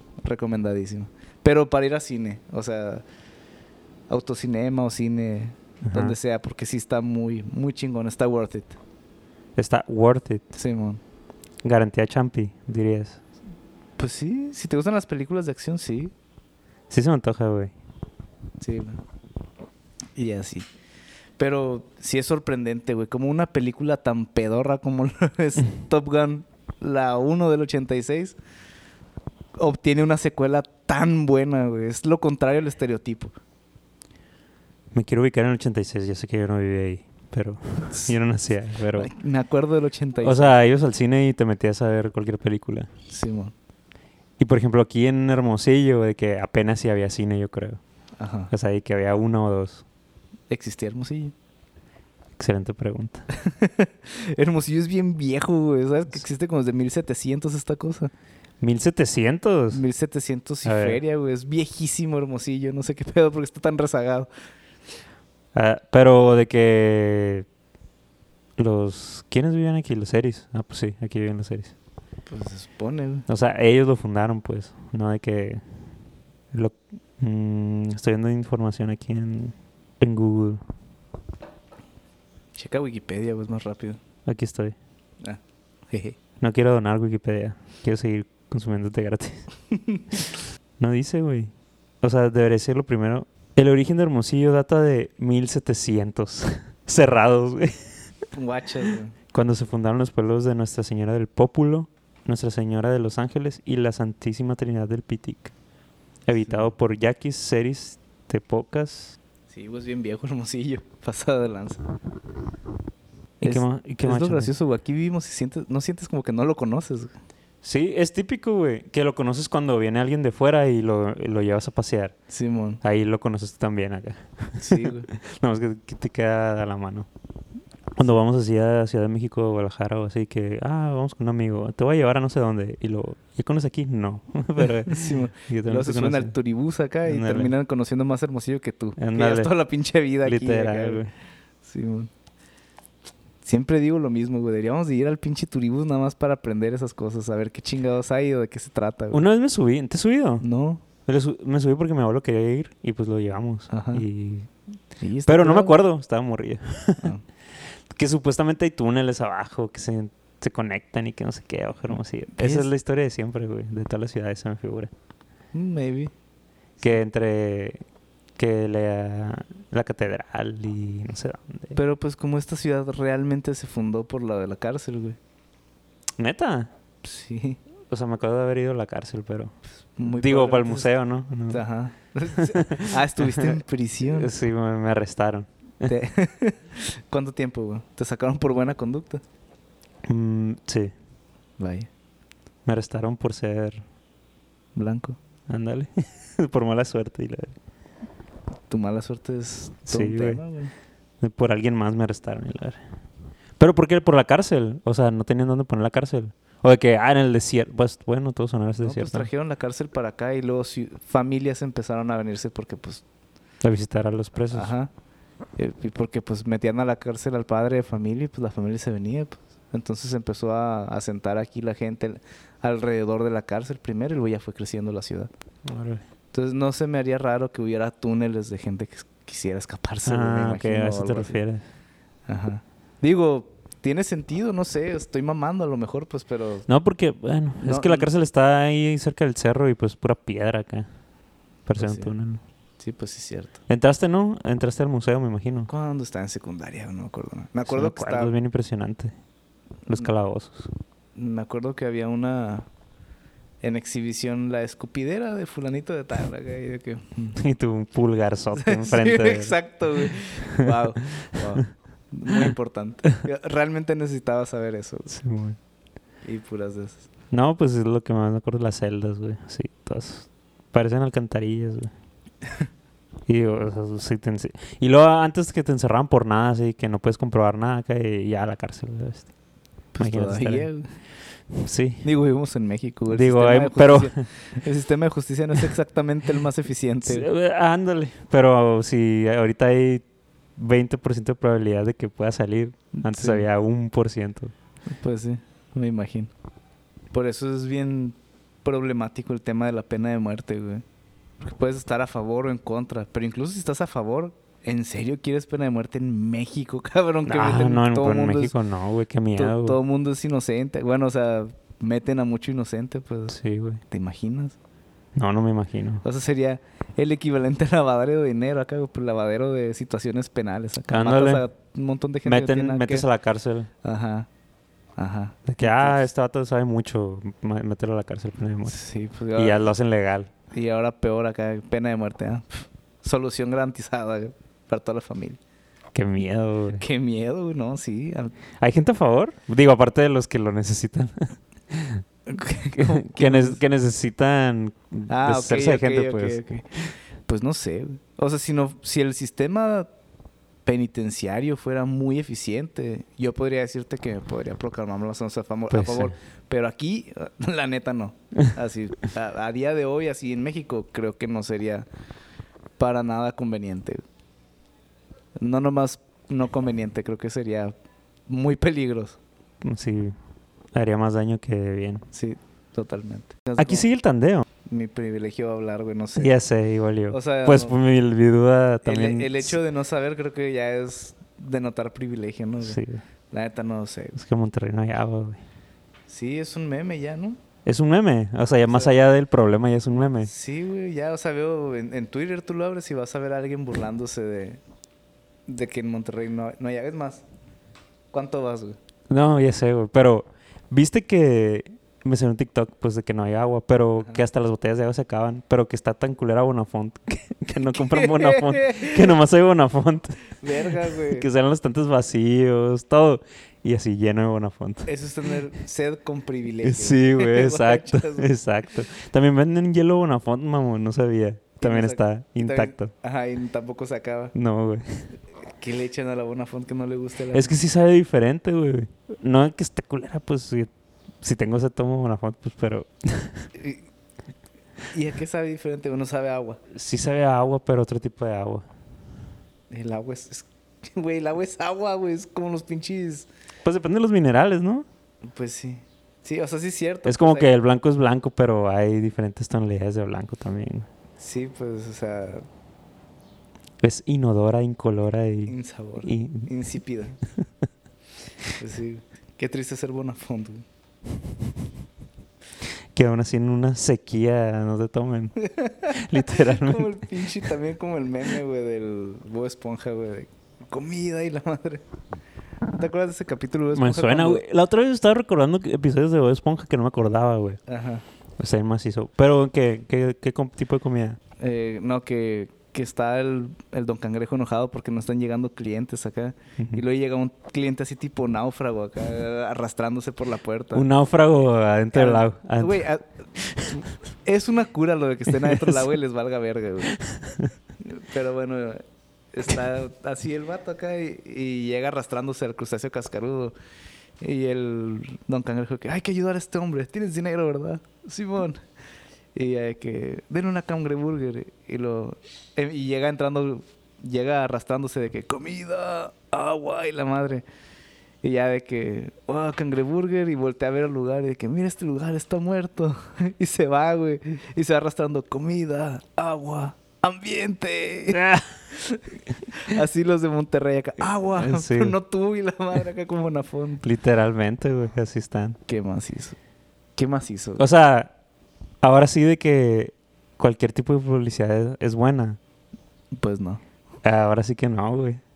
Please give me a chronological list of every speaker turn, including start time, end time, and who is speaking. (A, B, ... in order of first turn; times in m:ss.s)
0:00.2-0:03.0 A
0:04.1-0:08.8 A
0:05.8-0:06.2 B
0:09.6-0:10.4 B
0:10.5-0:11.0 A
0:11.6-0:13.2 B
0:14.0-0:16.1 A
0:16.9-0:17.7 B
0:18.6-0:19.0 A
0:20.2-0:20.6 A
0:21.4-0:28.4 A
0:29.6-0:33.3 A
0:34.9-0:39.1 B
0:38.9-0:40.5 A
0:40.2-0:42.9 B
0:43.1-0:43.5 A
0:44.4-0:47.8 B
0:48.2-0:48.5 A
0:48.5-0:49.8 B
0:50.5-0:51.3 A
0:52.4-0:53.3 B
0:53.3-0:58.1 A
0:58.6-0:59.8 B
0:59.7-1:04.3 A
1:00.6-1:01.0 B
1:05.5-1:07.4 B
1:08.6-1:11.7 B
1:12.3-1:13.3 A
1:13.3-1:15.6 B
1:16.5-1:20.6 B
1:22.6-1:24.0 A
1:24.2-1:24.8 B
1:25.2-1:26.2 A
1:26.4-1:29.4 B
1:29.7-1:30.2 A
1:30.8-1:31.5 B
1:32.0-1:37.8 B
1:38.3-1:39.1 A
1:39.3-1:45.5 B
1:46.2-1:49.2 B
1:46.4-1:46.7 A
1:49.5-1:51.8 A
1:53.4-1:57.1 A
1:53.4-1:54.5 B
1:57.6-2:02.1 B
2:02.3-2:02.8 A
2:02.8-2:07.1 B
2:04.6-2:05.1 A
2:08.0-2:16.3 B
2:14.8-2:21.0 A
2:17.1-2:17.5 B
2:19.0-2:19.5 B
2:20.2-2:21.1 B
2:21.6-2:22.1 A
2:23.4-2:29.2 A
2:29.1-2:30.4 B
2:30.4-2:30.8 A
2:31.0-2:34.5 B
2:33.7-2:34.0 A
2:35.0-2:35.8 A
2:35.2-2:37.1 B
2:37.0-2:37.2 A
2:37.9-2:44.9 B
2:42.3-2:42.7 A
2:45.5-2:46.1 A
2:46.8-2:47.8 B
2:48.4-2:51.8 B
2:51.8-2:55.2 A
2:56.2-2:56.7 B
2:57.0-2:57.6 A
2:57.9-3:01.6 B
3:00.0-3:00.9 A
3:01.5-3:04.3 A
3:02.4-3:05.9 B
3:05.8-3:09.2 A
3:10.1-3:10.9 B
3:11.6-3:11.9 A
3:12.6-3:13.8 B
3:14.8-3:15.2 A
3:15.5-3:17.6 B
3:18.7-3:20.7 A
3:19.9-3:20.4 B
3:21.2-3:22.8 B
3:23.6-3:29.3 B
3:28.8-3:33.0 A
3:33.6-3:34.7 B
3:34.5-3:34.9 A
3:35.6-3:45.3 A
3:45.6-3:46.0 B
3:46.3-3:51.4 A
3:50.1-3:51.6 B
3:52.3-3:56.6 A
3:56.7-4:00.9 B
3:57.6-3:58.1 A
4:01.7-4:02.4 B
4:01.8-4:02.1 A
4:02.8-4:03.6 A
4:03.7-4:05.7 B
4:05.7-4:08.3 A
4:07.6-4:09.1 B
4:09.9-4:10.7 B
4:11.2-4:12.6 A
4:13.6-4:17.4 A
4:17.4-4:20.8 B
4:18.5-4:25.1 A
4:25.1-4:25.6 B
4:26.2-4:27.1 A
4:27.3-4:31.9 B
4:33.3-4:39.3 B
4:39.9-4:40.9 A
4:40.0-4:40.7 B
4:41.5-4:42.0 B
4:42.0-4:47.3 A
4:43.1-4:44.2 B
4:47.1-4:50.0 B
4:50.6-4:54.5 B
4:52.9-4:53.4 A
4:54.9-4:56.3 A
4:57.1-5:00.8 A
5:01.4-5:08.5 A
5:07.2-5:09.8 B
5:09.4-5:13.4 A
5:13.3-5:13.8 B
5:13.9-5:14.6 A
5:15.1-5:16.0 B
5:16.0-5:23.0 A
5:20.9-5:21.4 B
5:22.2-5:23.7 B
5:23.8-5:24.3 A
5:25.0-5:26.0 A
5:25.5-5:28.8 B
5:28.6-5:29.6 A
5:29.4-5:30.3 B
5:30.5-5:35.4 A
5:35.9-5:36.8 B
5:36.8-5:38.4 A
5:38.6-5:42.0 B
5:42.3-5:43.6 A
5:42.8-5:46.4 B
5:45.1-5:49.9 A
5:50.6-6:01.9 A
5:55.7-5:56.1 B
6:02.8-6:04.0 A
6:05.4-6:07.7 A
6:08.3-6:09.2 A
6:09.6-6:10.1 B
6:10.7-6:12.0 B
6:12.1-6:13.8 A
6:13.6-6:14.5 B
6:14.6-6:16.3 A
6:16.2-6:19.5 B
6:17.1-6:17.8 A
6:18.8-6:22.8 A
6:22.6-6:23.0 B
6:23.3-6:24.2 A
6:24.2-6:25.4 B
6:26.1-6:27.4 A
6:27.6-6:30.3 B
6:28.7-6:28.9 A
6:30.2-6:34.6 A
6:35.5-6:37.2 A
6:38.1-6:38.8 A
6:39.1-6:54.9 B
6:47.8-6:49.2 A
6:50.4-6:51.3 A
6:54.9-6:58.3 A
6:56.6-7:02.9 B
7:01.6-7:04.3 A
7:04.3-7:05.0 B
7:05.6-7:07.6 A
7:07.3-7:10.7 B
7:11.2-7:13.5 B
7:13.6-7:13.8 A
7:14.9-7:16.6 A
7:16.7-7:18.6 B
7:19.7-7:23.3 A
7:23.6-7:24.9 B
7:25.3-7:27.5 A
7:27.0-7:30.9 B
7:31.2-7:32.4 A
7:33.8-7:36.5 B
7:35.5-7:37.2 A
7:38.6-7:40.6 A
7:42.9-7:45.4 B
7:45.4-7:51.8 A
7:45.9-7:47.0 B
7:52.8-7:54.4 A
7:53.7-7:57.6 B
7:57.7-7:58.0 A
7:58.4-8:01.2 B
8:01.4-8:10.9 A
8:10.7-8:12.8 B
8:11.9-8:13.1 A
8:13.6-8:17.0 A
8:15.4-8:15.9 B
8:17.0-8:17.5 B
8:17.8-8:18.8 A
8:19.3-8:23.5 A
8:24.2-8:28.6 A
8:29.4-8:37.4 A
8:38.2-8:53.9 A
8:48.1-8:48.6 B
8:51.4-8:51.9 B
8:53.8-8:55.6 B
8:55.7-8:56.4 A
8:57.0-8:57.6 A
8:57.6-8:58.1 B
8:58.8-9:02.4 B
9:03.2-9:03.6 A
9:04.0-9:05.2 B